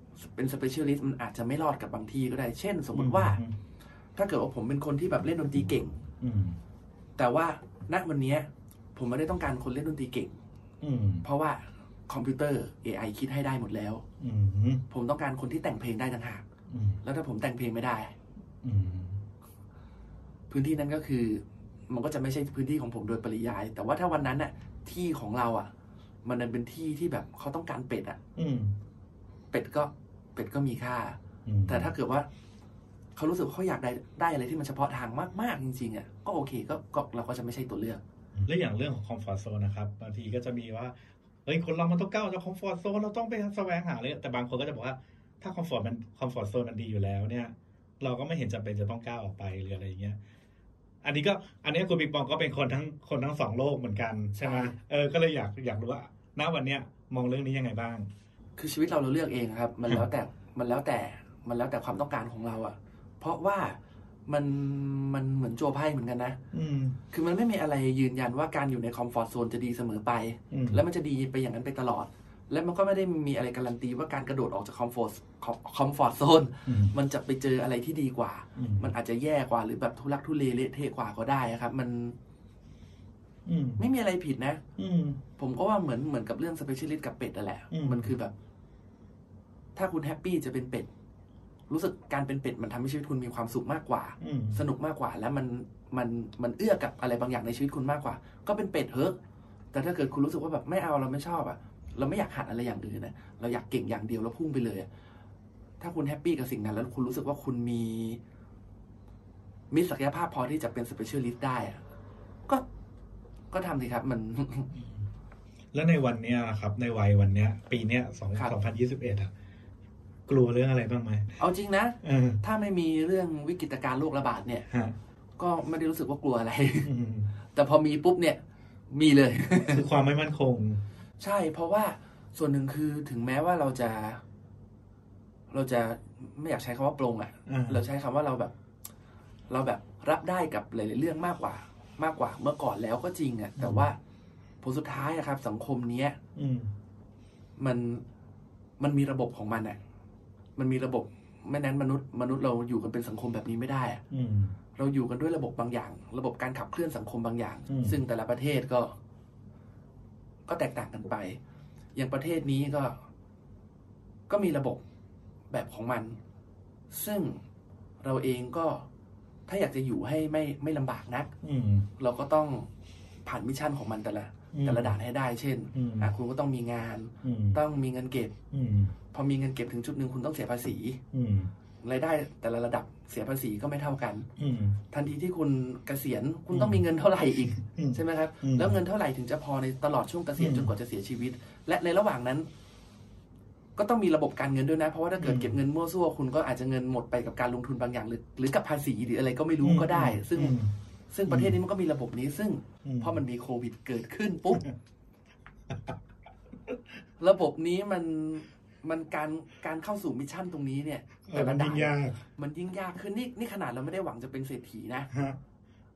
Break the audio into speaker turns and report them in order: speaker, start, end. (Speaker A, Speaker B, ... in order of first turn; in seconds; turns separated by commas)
Speaker A: 0.2-3.4, Speaker B: 2.9-3.5, Speaker A: 4.2-6.0, Speaker B: 6.2-6.6, Speaker A: 7.2-10.4, Speaker B: 10.8-11.2, Speaker A: 11.2-14.0, Speaker B: 14.2-14.8, Speaker A: 14.9-16.4, Speaker B: 16.7-17.0, Speaker A: 17.0-18.1, Speaker B: 18.6-19.2, Speaker A: 20.5-25.7, Speaker A: 26.2-28.2, Speaker B: 28.4-28.8, Speaker A: 29.5-32.3, Speaker B: 31.4-31.9, Speaker A: 33.1-38.0, Speaker B: 38.4-50.2, Speaker B: 51.0-58.1, Speaker A: 54.4-54.7, Speaker A: 58.6-66.4, Speaker B: 66.5-67.0, Speaker A: 67.1-82.2, Speaker B: 70.5-70.8, Speaker B: 76.7-76.9, Speaker B: 78.5-78.9, Speaker B: 83.5-83.8, Speaker A: 83.8-84.6, Speaker B: 84.8-85.2, Speaker A: 85.4-88.3, Speaker B: 87.7-88.1, Speaker A: 89.7-90.9, Speaker A: 91.7-99.2, Speaker B: 94.2-94.6, Speaker A: 99.7-104.9, Speaker A: 105.8-108.2, Speaker A: 109.7-111.8, Speaker A: 113.5-114.7, Speaker B: 115.7-119.3, Speaker B: 120.3-121.3, Speaker A: 121.4-124.7, Speaker B: 122.0-122.4, Speaker B: 124.7-125.0, Speaker A: 125.4-126.9, Speaker B: 126.8-127.3, Speaker A: 127.5-128.4, Speaker A: 128.9-129.8, Speaker B: 129.6-130.8, Speaker A: 131.2-134.2, Speaker A: 135.5-138.5, Speaker B: 137.5-137.8, Speaker A: 139.5-144.0, Speaker B: 143.6-143.9, Speaker A: 144.6-146.2, Speaker B: 146.3-146.7, Speaker A: 147.6-148.0, Speaker A: 148.8-149.8, Speaker A: 150.6-154.0, Speaker B: 154.1-154.6, Speaker A: 154.8-158.9, Speaker B: 157.7-158.0, Speaker A: 160.5-161.4, Speaker A: 161.9-163.0, Speaker A: 164.3-164.8, Speaker A: 165.5-166.2, Speaker A: 166.9-167.4, Speaker A: 168.0-168.9, Speaker A: 169.5-171.3, Speaker B: 171.4-171.9, Speaker A: 172.0-172.7, Speaker A: 173.2-178.3, Speaker B: 174.5-174.9, Speaker B: 175.7-176.1, Speaker B: 177.2-177.6, Speaker B: 178.5-178.9, Speaker A: 179.1-181.0, Speaker B: 181.1-181.5, Speaker A: 181.8-184.3, Speaker B: 184.4-184.8, Speaker A: 184.9-192.5, Speaker B: 186.5-186.8, Speaker B: 187.4-188.8, Speaker B: 190.4-190.7, Speaker A: 193.8-200.6, Speaker B: 195.2-195.6, Speaker B: 199.6-200.7, Speaker A: 201.1-204.6, Speaker B: 201.3-201.6, Speaker B: 202.8-203.2, Speaker A: 207.2-215.1, Speaker B: 211.3-212.2, Speaker B: 215.1-215.4